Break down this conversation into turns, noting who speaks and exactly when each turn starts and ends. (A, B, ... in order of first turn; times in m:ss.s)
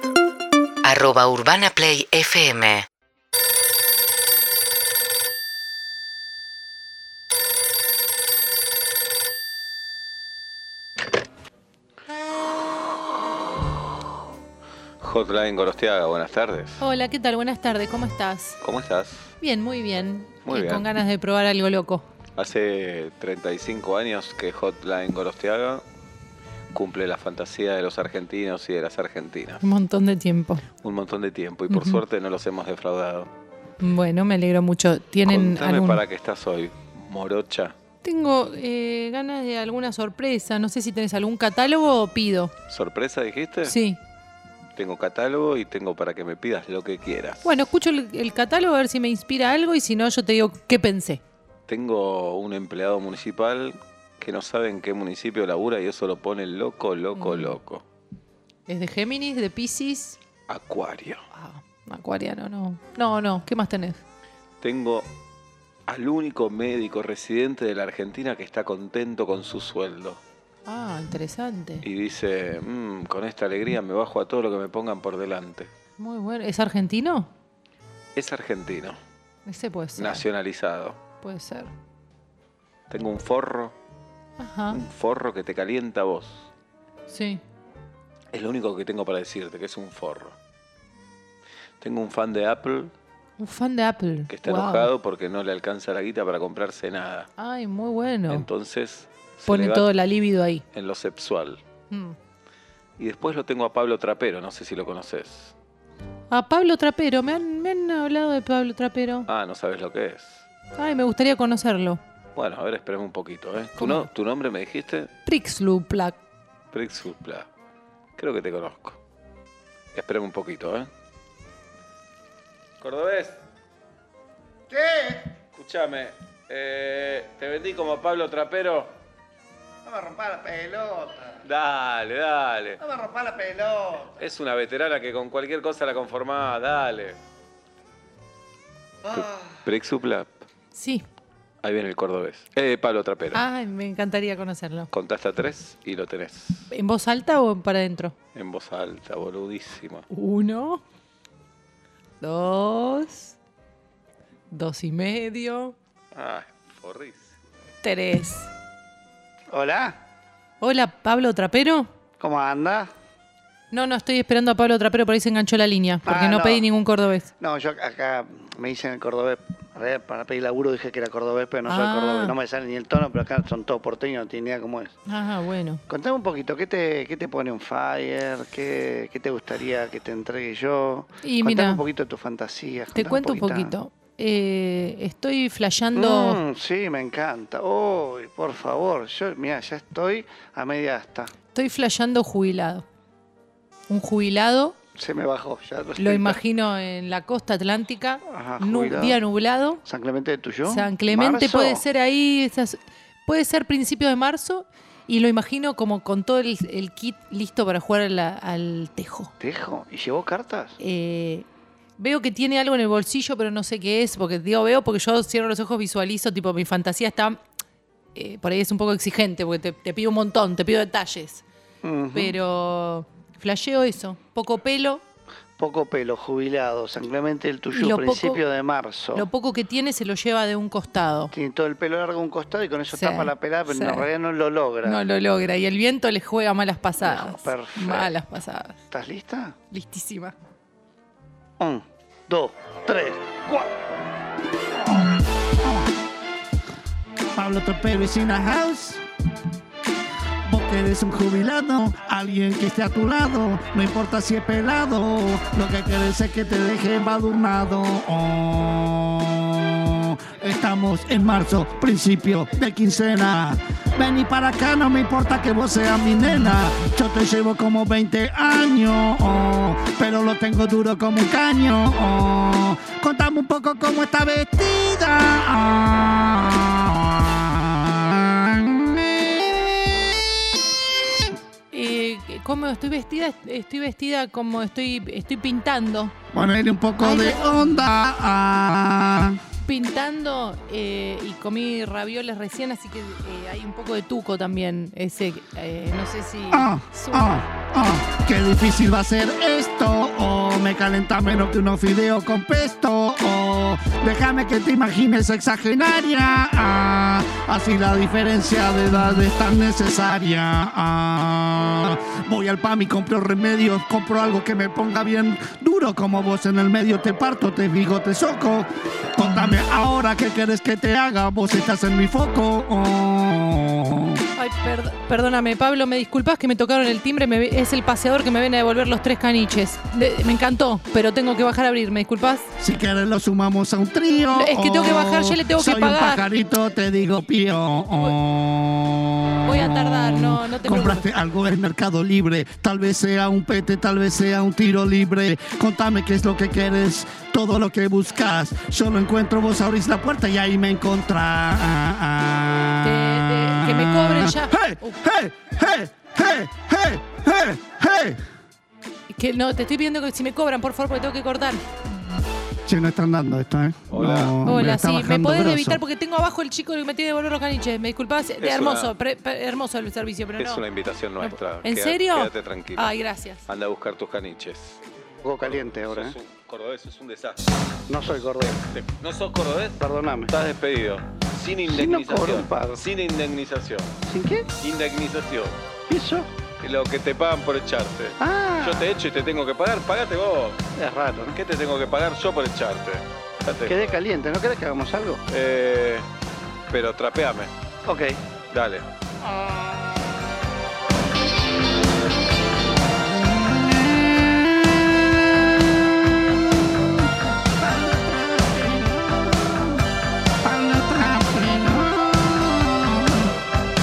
0:00.8-0:02.8 A
0:15.0-0:16.8 B
0:16.8-0:18.6 C
0:18.6-0:19.3 B
0:19.4-0:22.0 C
0:20.4-0:20.9 B
0:22.4-0:25.8 B
0:26.7-0:29.7 B
0:29.6-0:30.6 C
0:30.8-0:33.3 B
0:31.7-0:32.0 C
0:33.8-0:36.0 C
0:35.2-0:37.7 B
0:38.0-0:42.5 C
0:42.7-0:43.7 B
0:43.6-0:44.0 C
0:44.8-0:47.5 B
0:47.4-0:51.2 C
0:51.7-0:57.8 B
0:57.1-0:57.6 C
0:58.7-1:00.2 C
1:00.5-1:01.2 B
1:01.3-1:04.0 C
1:04.6-1:05.1 B
1:05.9-1:10.2 B
1:10.6-1:11.8 C
1:11.8-1:15.7 B
1:16.0-1:17.3 C
1:18.1-1:19.0 B
1:19.4-1:20.2 C
1:20.0-1:21.0 B
1:21.2-1:21.7 C
1:22.9-1:23.8 B
1:24.4-1:24.8 C
1:24.7-1:26.5 B
1:27.1-1:27.4 C
1:28.3-1:30.4 B
1:31.8-1:32.9 B
1:33.4-1:34.9 C
1:34.3-1:37.3 B
1:37.4-1:38.5 C
1:38.3-1:39.9 B
1:39.5-1:40.6 C
1:40.7-1:41.6 B
1:41.9-1:42.2 C
1:43.0-1:45.5 B
1:46.3-1:49.3 C
1:49.2-1:50.4 B
1:50.8-1:52.0 C
1:52.3-1:55.1 B
1:53.8-1:54.0 C
1:55.2-1:56.2 C
1:56.7-1:57.5 B
1:58.2-1:59.0 B
1:59.9-2:00.9 B
2:02.8-2:03.4 B
2:04.7-2:05.2 D
2:05.5-2:08.9 B
2:09.8-2:11.4 D
2:11.4-2:12.8 B
2:12.8-2:14.1 D
2:14.1-2:17.2 B
2:19.0-2:20.4 B
2:20.7-2:21.0 C
2:21.6-2:23.4 B
2:23.3-2:24.9 C
2:24.9-2:26.7 B
2:26.7-2:28.1 C
2:28.3-2:30.0 B
2:30.1-2:30.8 C
2:32.2-2:33.3 C
2:34.5-2:35.7 C
2:36.1-2:37.3 B
2:37.8-2:38.5 C
2:39.5-2:40.0 D
2:40.6-2:41.9 C
2:42.2-2:42.9 D
2:43.7-2:47.3 C
2:46.0-2:46.7 D
2:47.4-2:54.9 D
2:51.6-2:52.4 C
2:55.1-2:55.8 C
2:55.9-3:03.7 D
3:01.2-3:01.8 C
3:02.9-3:06.4 C
3:05.9-3:11.3 D
3:11.5-3:12.8 C
3:13.9-3:14.8 C
3:15.0-3:16.4 D
3:16.0-3:19.8 C
3:18.3-3:19.2 D
3:19.8-3:21.8 D
3:20.6-3:29.3 C
3:29.4-3:30.8 D
3:30.8-3:31.4 C
3:32.0-3:37.4 C
3:38.1-3:41.4 C
3:41.8-3:42.4 D
3:42.1-3:45.0 C
3:45.6-3:49.3 D
3:47.7-3:48.4 C
3:49.1-3:51.3 C
3:51.3-3:55.0 D
3:52.9-3:54.1 C
3:54.8-3:58.8 C
3:57.0-3:58.1 D
3:58.9-3:59.5 D
3:59.7-4:00.4 C
4:01.6-4:03.7 D
4:07.3-4:09.0 E
4:10.4-4:40.1 E
4:41.7-4:46.1 C
4:46.3-4:49.4 E
4:47.0-4:47.9 C
4:49.6-4:57.4 C
4:56.5-5:24.2 E
5:24.4-5:32.4 C
5:32.6-5:58.2 E
5:34.3-5:36.3 C
5:39.4-5:41.1 C
5:52.8-5:55.0 C
5:59.1-6:01.6 C
6:02.6-6:05.8 E
6:03.9-6:04.4 B
6:04.4-6:10.6 C
6:08.4-6:08.9 B
6:10.4-6:12.9 B
6:11.2-6:13.4 C
6:13.5-6:14.8 B
6:15.2-6:16.1 D
6:15.4-6:24.0 B
6:17.9-6:18.6 D
6:19.8-6:20.3 D
6:21.6-6:22.8 D
6:24.1-6:24.5 D
6:24.6-6:25.6 B
6:25.9-6:26.3 D
6:26.6-6:30.6 B
6:28.2-6:28.9 D
6:30.8-6:31.4 D
6:31.3-6:34.0 B
6:33.6-6:35.2 D
6:35.3-6:36.1 B
6:36.7-6:37.5 B
6:37.8-6:38.2 D
6:38.5-6:38.9 B
6:50.4-6:52.7 E